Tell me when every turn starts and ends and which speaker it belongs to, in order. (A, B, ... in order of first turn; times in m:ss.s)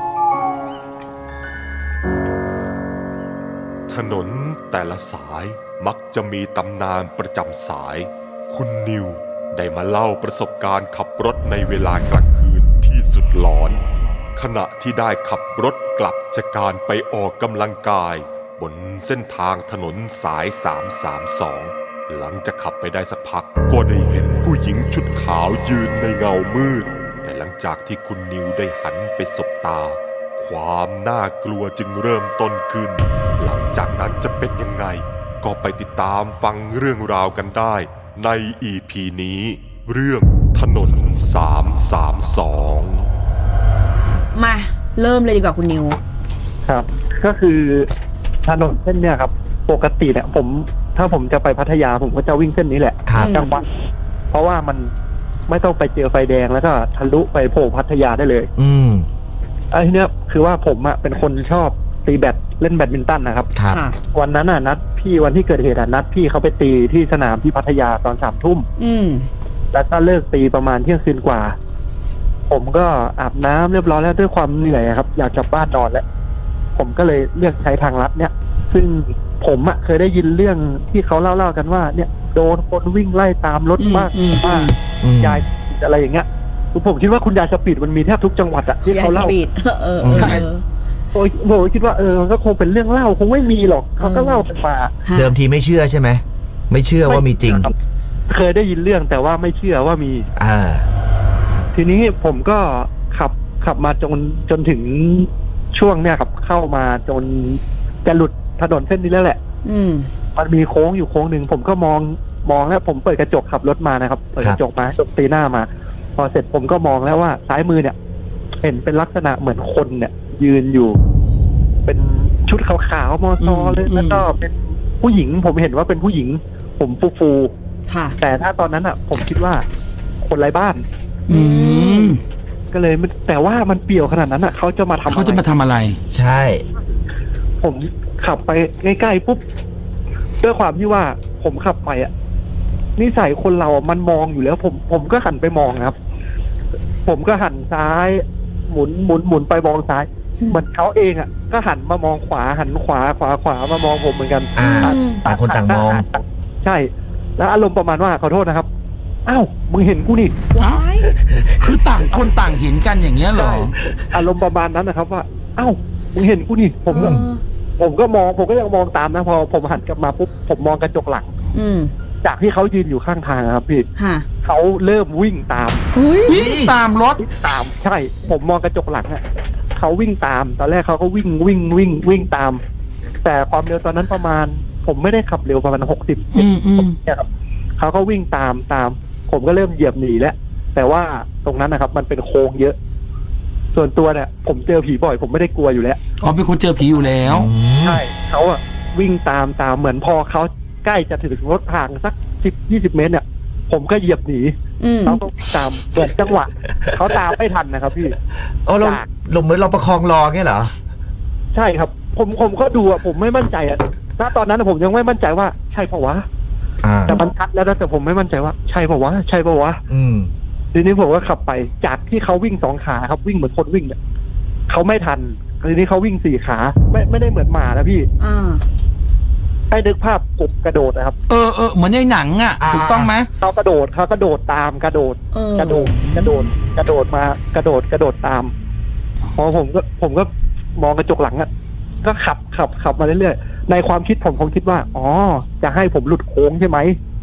0:03.9-0:13.8 A
0:14.4-0:43.1 A
0:44.4-0:46.0 B
0:46.7-0:47.9 C
0:48.4-0:53.6 C
0:53.1-0:53.4 D
0:53.2-0:53.5 B
0:54.3-0:54.9 C
0:55.5-0:58.5 C
0:58.6-0:59.1 D
0:59.7-1:03.5 C
1:03.6-1:03.8 D
1:03.7-1:04.0 B
1:04.1-1:08.7 C
1:08.8-1:09.3 B
1:09.7-1:11.6 C
1:12.5-1:16.0 C
1:16.8-1:29.4 C
1:23.8-1:24.7 E
1:25.0-1:25.4 D
1:28.8-1:30.6 B
1:30.0-1:30.4 D
1:30.2-1:30.5 E
1:31.1-1:35.0 C
1:34.0-1:34.5 B
1:35.0-1:35.3 B
1:35.1-1:37.7 D
1:37.0-1:37.7 C
1:38.3-1:40.3 C
1:40.4-1:40.9 D
1:41.7-1:49.4 C
1:49.6-1:50.1 B
1:50.4-1:58.0 C
1:58.6-2:01.0 C
2:01.8-2:07.5 C
2:03.4-2:04.3 E
2:07.9-2:08.2 B
2:08.2-2:09.6 C
2:10.2-2:10.8 C
2:11.3-2:12.2 B
2:11.3-2:12.2 E
2:12.7-2:15.4 C
2:15.1-2:16.0 E
2:16.1-2:16.6 D
2:17.6-2:19.4 C
2:20.4-2:22.1 C
2:23.0-2:26.0 C
2:27.1-2:38.7 C
2:34.6-2:36.1 D
2:34.6-2:35.2 B
2:39.3-2:40.4 C
2:40.5-2:41.1 B
2:40.6-2:43.8 E
2:43.3-2:47.2 C
2:46.9-2:47.4 B
2:47.0-2:47.3 D
2:47.8-2:51.3 C
2:51.5-2:51.9 B
2:52.2-2:53.9 C
2:54.0-2:54.3 B
2:54.4-2:55.8 C
2:55.9-2:56.4 B
2:56.3-2:57.2 E
2:56.3-2:56.7 D
2:57.2-2:59.2 C
2:59.8-3:02.6 C
3:03.2-3:07.3 C
3:06.3-3:07.0 E
3:07.8-3:12.8 C
3:13.7-3:16.0 C
3:16.2-3:17.5 E
3:17.2-3:18.0 D
3:17.8-3:24.5 C
3:24.8-3:25.2 B
3:25.0-3:28.2 C
3:28.6-3:30.7 D
3:28.8-3:29.1 C
3:31.5-3:36.2 C
3:36.8-3:37.2 D
3:37.1-3:39.8 C
3:39.9-3:40.3 D
3:40.7-3:44.0 C
3:44.7-3:48.1 C
3:48.2-3:48.6 B
3:49.7-3:51.2 C
3:51.3-3:53.3 E
3:52.6-3:53.1 D
3:53.4-3:58.5 C
3:55.3-3:56.4 B
3:59.4-4:01.5 C
4:02.0-4:07.0 C